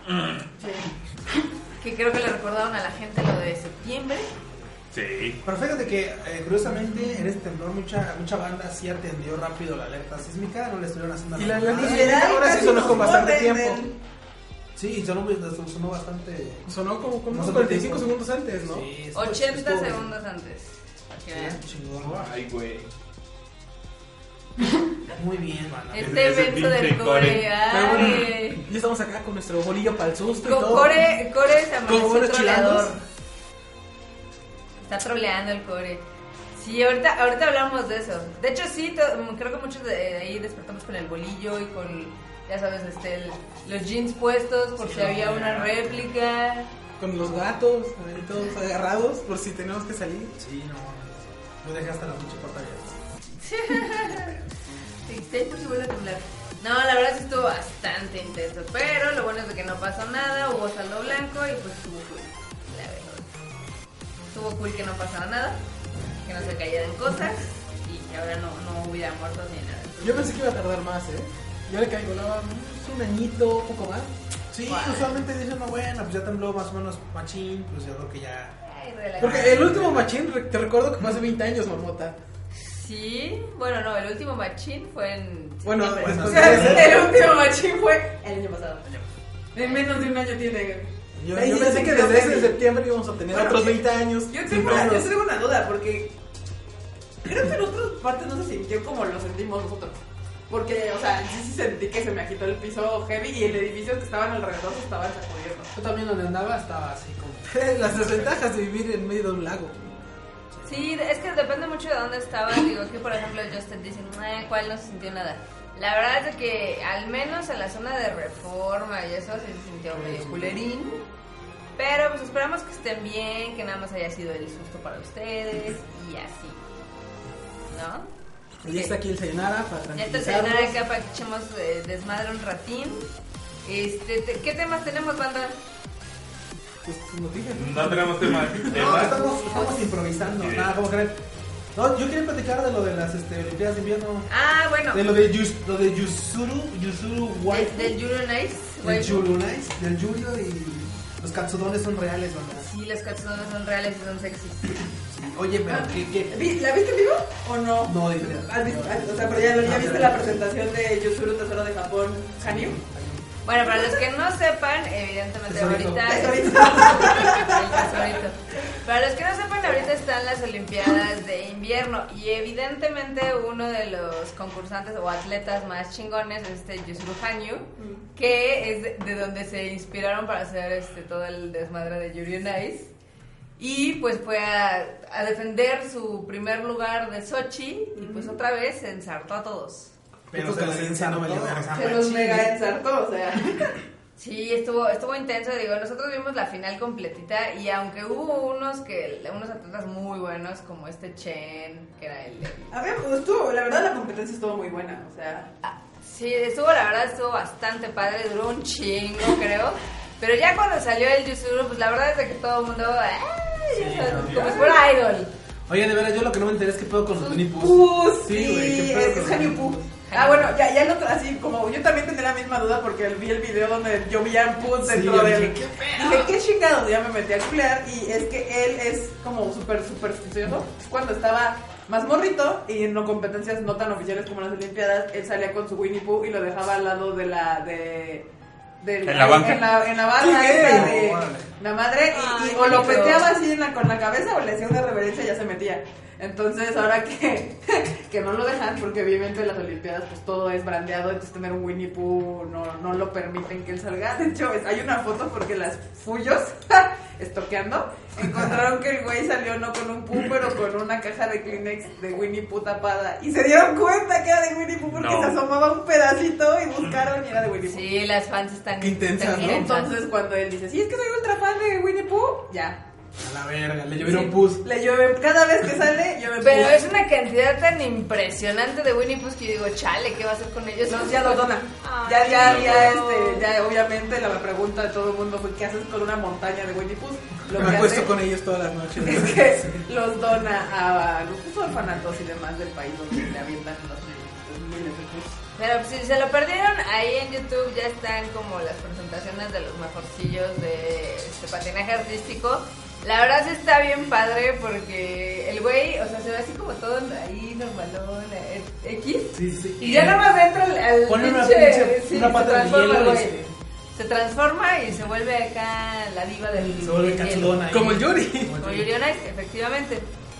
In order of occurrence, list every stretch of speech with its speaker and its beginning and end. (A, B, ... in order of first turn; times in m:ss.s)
0:00.1-0:00.4 A
0:00.6-0:00.9 B
0:01.8-0:04.3 C
0:04.9-0:05.4 A
0:05.4-0:13.2 D
0:11.3-0:13.8 E
0:11.8-0:14.0 B
0:11.8-0:12.6 C
0:14.8-0:16.7 D
0:16.6-0:19.9 E
0:17.3-0:18.1 D
0:18.6-0:19.9 D
0:19.1-0:21.6 C
0:21.3-0:22.2 D
0:22.0-0:22.9 A
0:25.1-0:26.2 D
0:25.9-0:28.6 C
0:26.0-0:27.4 A
0:27.6-0:31.0 E
0:30.4-0:33.0 C
0:31.8-0:33.0 E
0:34.8-0:46.7 C
0:44.9-0:45.7 A
0:47.0-0:50.4 E
0:50.4-0:52.9 D
0:53.4-0:54.4 C
0:55.0-1:03.3 C
1:04.3-1:05.6 C
1:06.2-1:10.4 C
1:10.0-1:15.9 E
1:14.6-1:15.2 C
1:15.7-1:18.5 D
1:18.6-1:19.7 C
1:19.2-1:22.2 E
1:19.2-1:20.1 D
1:22.6-1:26.7 C
1:25.6-1:27.1 E
1:26.0-1:27.1 D
1:26.1-1:28.8 B
1:29.5-1:32.6 B
1:31.2-1:35.1 E
1:31.3-1:31.8 D
1:33.3-1:36.1 B
1:34.5-1:34.9 A
1:37.2-1:45.7 B
1:45.8-1:49.8 E
1:46.6-1:48.4 D
1:50.6-2:01.0 C
2:00.0-2:00.5 E
2:01.8-2:06.6 C
2:07.7-2:08.1 C
2:08.6-2:10.8 E
2:08.6-2:08.9 C
2:09.9-2:13.1 C
2:13.6-2:15.6 C
2:16.8-2:19.0 E
2:17.5-2:19.2 A
2:18.6-2:21.2 D
2:18.8-2:19.7 B
2:20.4-2:20.8 A
2:21.7-2:24.3 D
2:24.3-2:25.0 C
2:24.9-2:27.9 D
2:27.5-2:29.3 C
2:28.8-2:32.7 D
2:32.6-2:34.8 C
2:35.1-2:36.5 D
2:35.7-2:42.8 B
2:37.9-2:40.4 D
2:38.6-2:39.9 E
2:42.4-2:43.2 D
2:43.4-3:02.9 C
2:43.6-2:43.9 B
2:45.5-2:46.7 D
2:45.9-2:48.2 B
2:57.8-2:58.0 B
3:03.6-3:09.9 C
3:08.0-3:08.3 B
3:10.3-3:12.0 E
3:10.3-3:12.5 D
3:11.7-3:13.8 B
3:14.2-3:22.7 C
3:22.7-3:25.5 B
3:25.6-3:35.3 C
3:33.7-3:34.7 D
3:34.2-3:34.8 B
3:35.7-3:39.5 D
3:37.2-3:58.3 B
3:38.4-3:39.5 E
3:40.1-3:40.5 C
3:44.8-3:46.1 D
3:45.6-3:46.2 E
3:58.8-4:27.8 B
3:59.0-3:59.7 A
4:00.2-4:01.0 E
4:00.2-4:01.5 D
4:02.1-4:03.3 C
4:24.9-4:25.4 A
4:27.7-4:29.9 C
4:28.8-4:29.7 E
4:29.3-4:32.8 B
4:33.2-4:34.2 D
4:33.4-4:34.6 E
4:34.5-4:36.8 B
4:36.4-4:43.4 C
4:40.9-4:48.2 B
4:42.3-4:43.0 A
4:47.5-4:49.8 E
4:47.6-4:47.9 D
4:49.0-4:55.4 B
4:55.6-5:13.3 C
5:09.4-5:10.2 D
5:11.1-5:13.5 E
5:13.9-5:17.9 C
5:16.6-5:18.9 D
5:17.6-5:18.6 E
5:18.6-5:20.1 C